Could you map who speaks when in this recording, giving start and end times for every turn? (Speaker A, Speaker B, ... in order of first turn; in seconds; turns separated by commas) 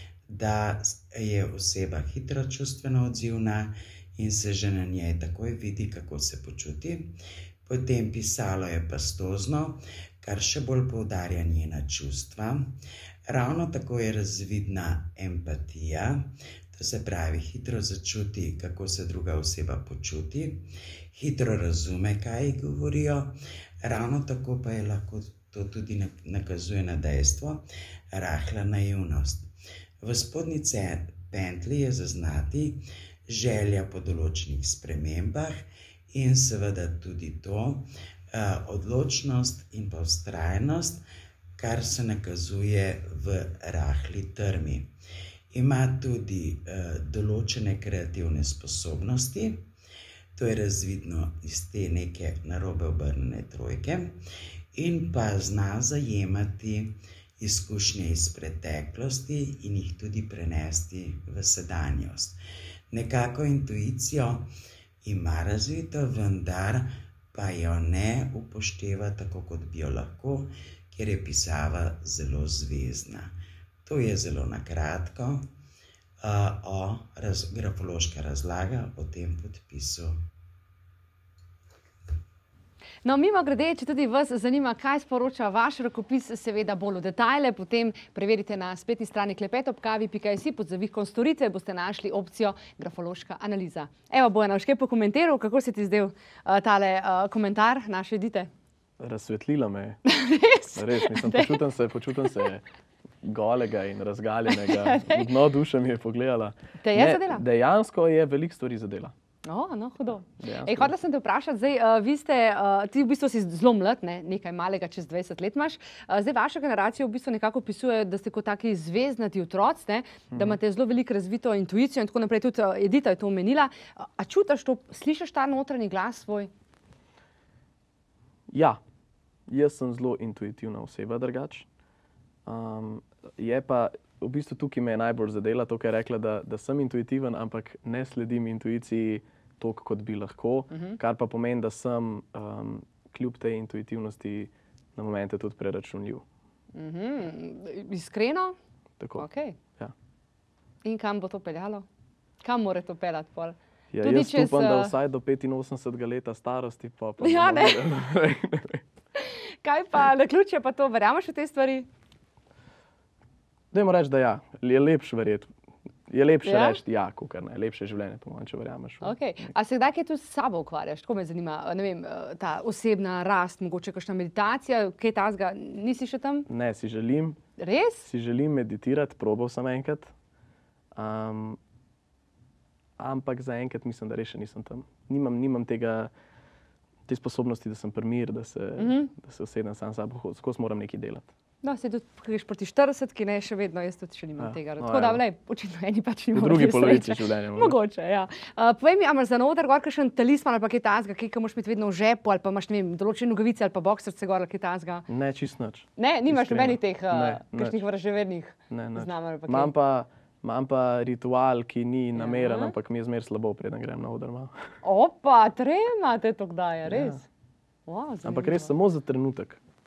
Speaker A: 0.3-29.5, Speaker A: 30.0-41.0, Speaker A: 41.6-44.9, Speaker A: 45.5-49.7, Speaker A: 50.4-54.2, Speaker A: 54.8-62.4, Speaker A: 62.9-64.5, Speaker A: 65.0-73.3, Speaker A: 73.8-75.5, Speaker A: 76.2-80.2, Speaker B: 83.0-98.5, Speaker C: 99.0-100.0, Speaker B: 100.0-101.6, Speaker C: 100.8-102.6, Speaker C: 103.2-109.1, Speaker B: 104.5-105.3, Speaker B: 106.8-107.4, Speaker B: 109.4-126.5, Speaker C: 110.4-110.9, Speaker C: 120.3-120.6, Speaker C: 128.5-128.8, Speaker C: 129.5-131.7, Speaker C: 132.4-146.2, Speaker B: 140.7-141.0, Speaker B: 146.8-148.5, Speaker C: 149.0-149.2, Speaker B: 149.2-149.6, Speaker B: 150.8-151.8, Speaker B: 152.4-154.9, Speaker C: 153.9-158.8, Speaker B: 157.2-157.9, Speaker B: 159.2-161.9, Speaker C: 163.7-165.5, Speaker C: 166.1-169.5, Speaker B: 166.4-166.8, Speaker B: 169.0-176.5, Speaker C: 176.5-177.4, Speaker B: 177.6-178.1, Speaker C: 178.1-180.1, Speaker C: 180.9-181.6, Speaker C: 183.0-186.1, Speaker C: 187.1-191.3, Speaker B: 188.8-189.1, Speaker B: 191.6-205.1, Speaker C: 194.4-195.2, Speaker C: 196.3-197.8, Speaker C: 205.1-207.8, Speaker B: 206.0-209.7, Speaker C: 208.7-214.5, Speaker B: 212.2-212.7, Speaker B: 214.8-217.2, Speaker C: 216.9-217.2, Speaker B: 217.9-218.7, Speaker C: 218.2-219.6